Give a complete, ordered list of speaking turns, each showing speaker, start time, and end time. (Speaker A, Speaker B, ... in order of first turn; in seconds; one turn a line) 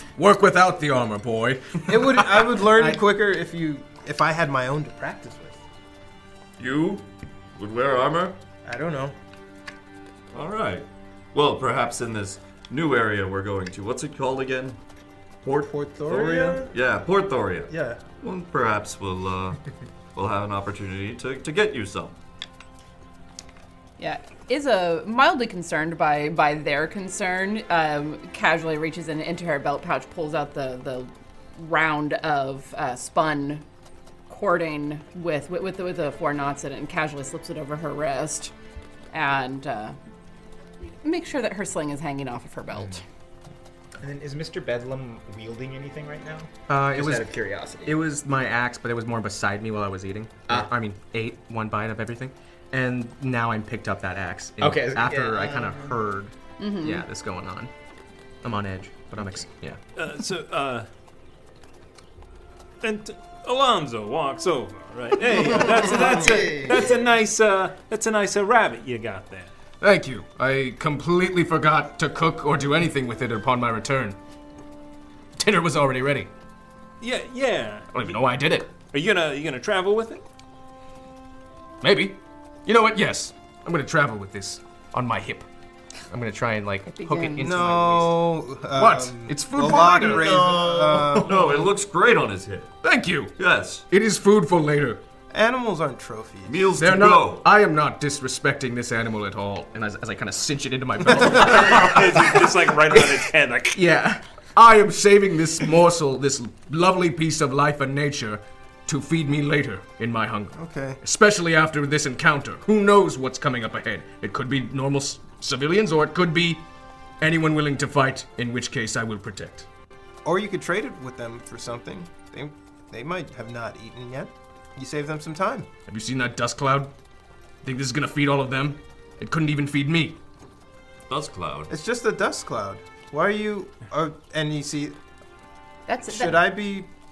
Speaker A: 0.1-1.8
Speaker B: 1.9-5.6
Speaker C: 6.6-8.4
Speaker B: 8.7-9.2
Speaker C: 10.3-14.8
Speaker C: 15.4-19.6
Speaker B: 15.5-16.7
Speaker B: 17.7-18.0
Speaker C: 20.1-22.2
Speaker D: 24.0-33.6
Speaker D: 34.3-38.5
Speaker D: 39.1-40.0
Speaker D: 40.8-43.0
Speaker E: 42.7-43.0
Speaker E: 44.0-48.0
Speaker F: 46.7-47.3
Speaker F: 47.9-57.7
Speaker E: 50.5-50.7
Speaker E: 54.6-56.0
Speaker D: 56.6-57.1
Speaker F: 58.4-59.8
Speaker G: 60.0-60.9
Speaker G: 62.8-69.5
Speaker E: 65.7-66.8
Speaker A: 69.8-74.2
Speaker A: 75.4-76.3
Speaker G: 77.0-78.2
Speaker F: 78.0-78.7
Speaker A: 78.0-78.6
Speaker G: 78.9-80.2
Speaker A: 81.8-85.5
Speaker F: 86.1-88.2
Speaker D: 86.9-87.6
Speaker B: 87.4-91.5
Speaker A: 88.8-90.3
Speaker E: 90.0-91.7
Speaker C: 91.0-92.8
Speaker A: 92.8-93.3
Speaker C: 93.4-93.9
Speaker A: 93.9-95.0
Speaker B: 95.3-96.8
Speaker C: 96.5-97.5
Speaker A: 96.8-102.0
Speaker F: 100.0-102.0
Speaker G: 101.3-103.8
Speaker F: 103.8-104.2
Speaker A: 104.6-116.6
Speaker B: 110.5-111.0
Speaker A: 117.2-119.7
Speaker B: 120.2-125.7
Speaker A: 125.9-126.9
Speaker A: 127.6-130.2
Speaker C: 131.1-131.7
Speaker B: 131.7-135.0
Speaker D: 135.9-136.5
Speaker B: 136.1-136.9